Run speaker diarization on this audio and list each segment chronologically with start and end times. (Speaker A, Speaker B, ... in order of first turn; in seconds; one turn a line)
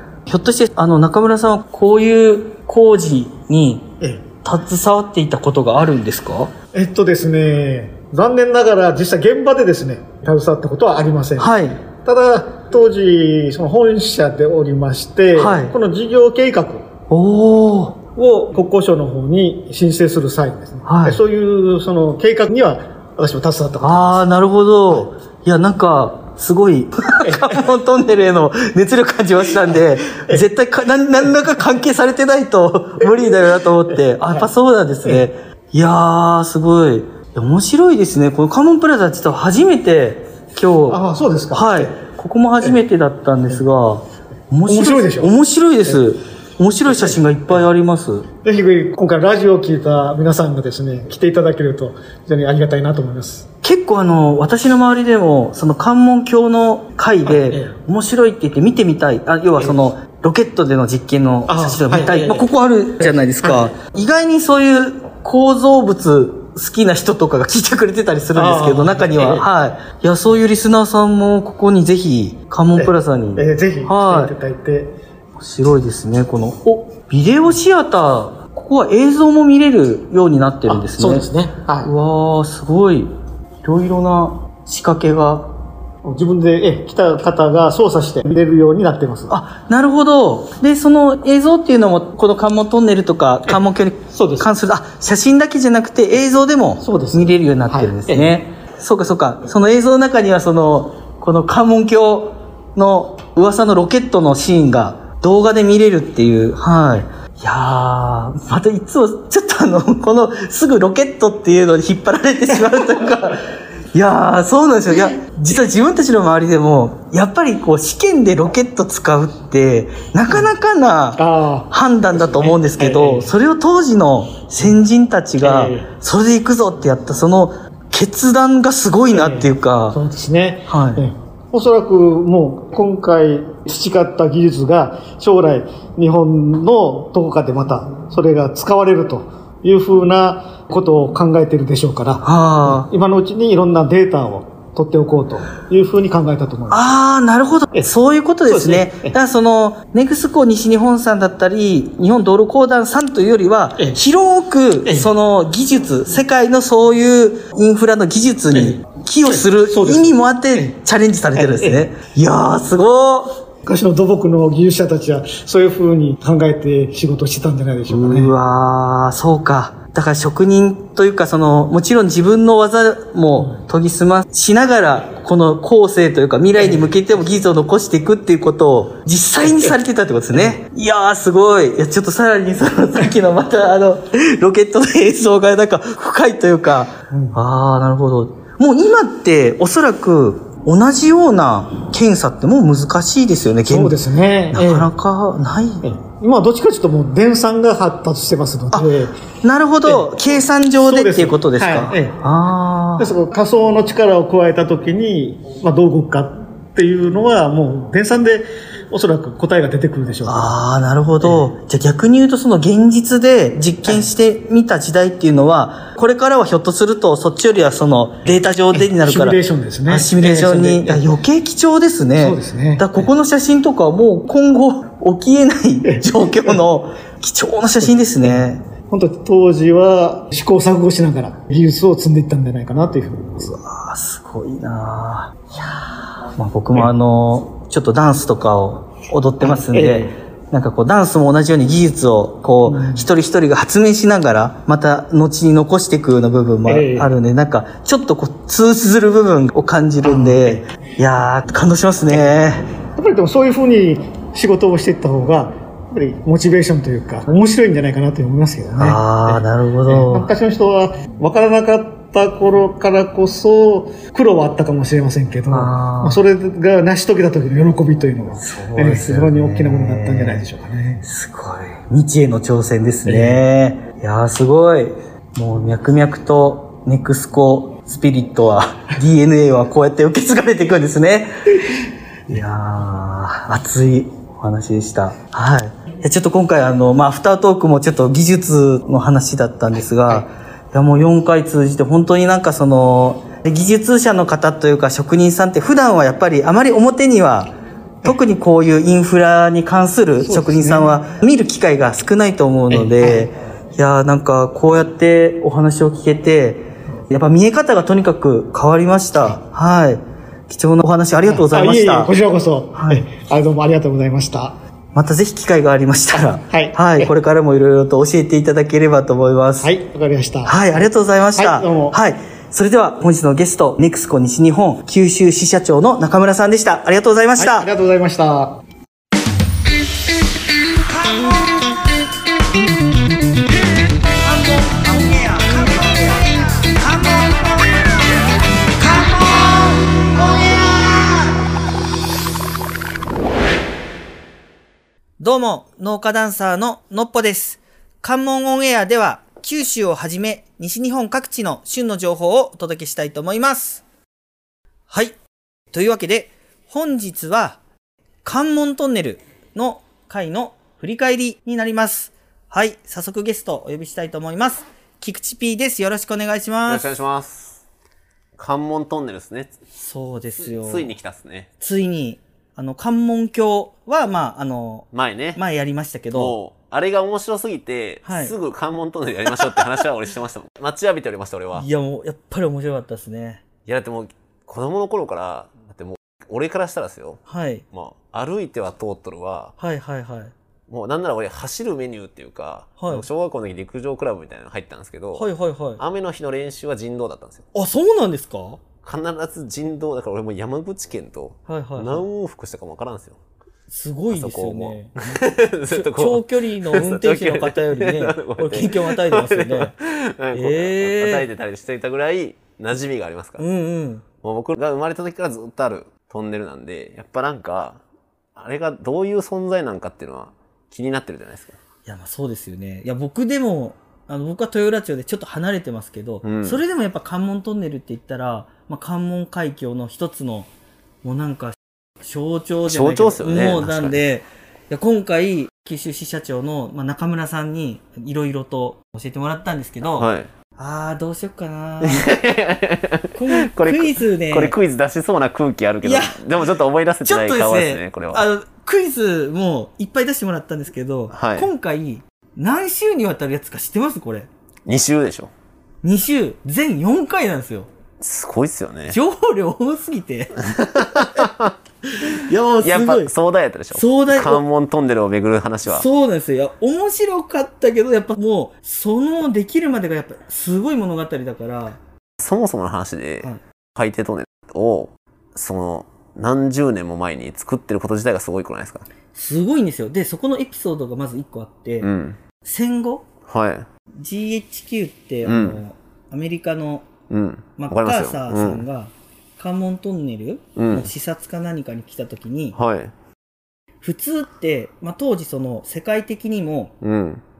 Speaker A: 0.3-3.9
Speaker A: 4.4-6.5
Speaker B: 6.7-16.9
Speaker A: 11.4-11.8
Speaker A: 15.3-15.7
Speaker A: 17.1-18.0
Speaker B: 18.1-24.2
Speaker A: 20.8-21.2
Speaker A: 23.8-41.0
Speaker B: 27.2-27.6
Speaker B: 30.1-30.4
Speaker B: 33.9-34.5
Speaker B: 40.9-42.0
Speaker A: 41.5-48.2
Speaker B: 44.7-45.3
Speaker B: 46.9-47.2
Speaker B: 48.4-53.5
Speaker A: 53.6-74.3
Speaker B: 57.2-57.8
Speaker B: 61.5-62.5
Speaker B: 63.0-63.7
Speaker B: 68.3-69.5
Speaker B: 72.8-74.9
Speaker A: 75.4-81.3
Speaker B: 80.7-81.9
Speaker A: 81.8-83.1
Speaker A: 83.6-85.5
Speaker B: 86.0-89.3
Speaker A: 89.3-130.0
Speaker B: 94.1-94.5
Speaker B: 96.8-98.4
Speaker B: 121.2-123.3
Speaker B: 125.4-125.9
Speaker B: 129.1-146.9
Speaker A: 130.7-131.0
Speaker A: 142.2-142.9
Speaker A: 146.7-163.4
Speaker B: 148.5-149.1
Speaker B: 158.5-160.7
Speaker B: 161.3-161.9
Speaker B: 163.7-168.3
Speaker A: 167.9-194.0
Speaker B: 176.6-176.9
Speaker B: 179.4-179.7
Speaker B: 187.1-187.4
Speaker B: 193.7-194.9
Speaker A: 194.5-195.8
Speaker B: 195.8-199.2
Speaker A: 199.4-203.1
Speaker B: 199.8-202.2
Speaker B: 203.0-210.5
Speaker A: 210.2-228.6
Speaker B: 218.7-221.1
Speaker B: 222.2-223.1
Speaker B: 225.8-226.6
Speaker B: 228.2-233.5
Speaker A: 233.4-235.6
Speaker A: 236.3-252.7
Speaker B: 239.4-240.1
Speaker B: 242.7-243.1
Speaker B: 246.7-247.1
Speaker B: 250.0-250.6
Speaker B: 252.9-271.0
Speaker A: 258.7-260.3
Speaker A: 265.5-266.2
Speaker A: 268.4-270.4
Speaker A: 271.0-281.3
Speaker B: 273.1-273.4
Speaker A: 282.3-297.5
Speaker A: 298.0-312.1
Speaker B: 300.2-300.9
Speaker B: 302.7-303.3
Speaker B: 311.2-314.5
Speaker A: 312.8-313.0
Speaker A: 314.9-319.7
Speaker B: 316.1-317.1
Speaker B: 319.6-320.8
Speaker A: 320.4-327.7
Speaker B: 321.4-322.0
Speaker B: 327.4-328.6
Speaker A: 330.9-331.7
Speaker A: 334.1-341.4
Speaker A: 345.2-353.8
Speaker A: 354.9-355.2
Speaker A: 355.7-357.6
Speaker A: 358.2-367.0
Speaker C: 366.7-367.6
Speaker C: 368.4-369.5
Speaker A: 369.7-370.9
Speaker C: 370.4-371.5
Speaker A: 371.6-376.4
Speaker C: 374.9-375.4
Speaker C: 376.1-381.6
Speaker A: 378.0-378.4
Speaker A: 381.5-383.4
Speaker C: 383.6-389.5
Speaker A: 387.3-387.6
Speaker A: 389.6-390.3
Speaker C: 390.7-397.5
Speaker A: 392.8-393.1
Speaker A: 395.1-395.8
Speaker A: 397.5-398.6
Speaker C: 398.8-403.2
Speaker A: 401.5-402.1
Speaker A: 403.7-404.9
Speaker C: 404.1-413.4
Speaker A: 405.7-409.7
Speaker A: 410.3-411.3
Speaker A: 413.4-414.0
Speaker C: 414.2-417.8
Speaker C: 418.4-421.6
Speaker A: 421.9-430.5
Speaker C: 426.2-426.6
Speaker A: 431.0-442.1
Speaker C: 432.7-434.0
Speaker C: 439.9-440.3
Speaker C: 441.8-448.3
Speaker A: 443.1-444.6
Speaker A: 445.8-446.2
Speaker A: 447.0-454.3
Speaker C: 451.1-451.5
Speaker C: 454.6-455.3
Speaker A: 455.8-457.7
Speaker C: 458.0-459.0
Speaker A: 458.9-461.3
Speaker C: 460.4-465.9
Speaker A: 461.9-463.1
Speaker A: 463.7-464.4
Speaker A: 465.6-471.8
Speaker C: 472.2-478.9
Speaker A: 479.1-481.9
Speaker C: 481.8-482.2
Speaker A: 482.4-483.1
Speaker C: 483.3-483.7
Speaker A: 484.0-486.9
Speaker C: 485.2-485.6
Speaker C: 487.1-488.6
Speaker A: 487.6-492.6
Speaker C: 490.6-490.9
Speaker C: 492.5-492.9
Speaker A: 493.8-496.7
Speaker C: 496.8-497.2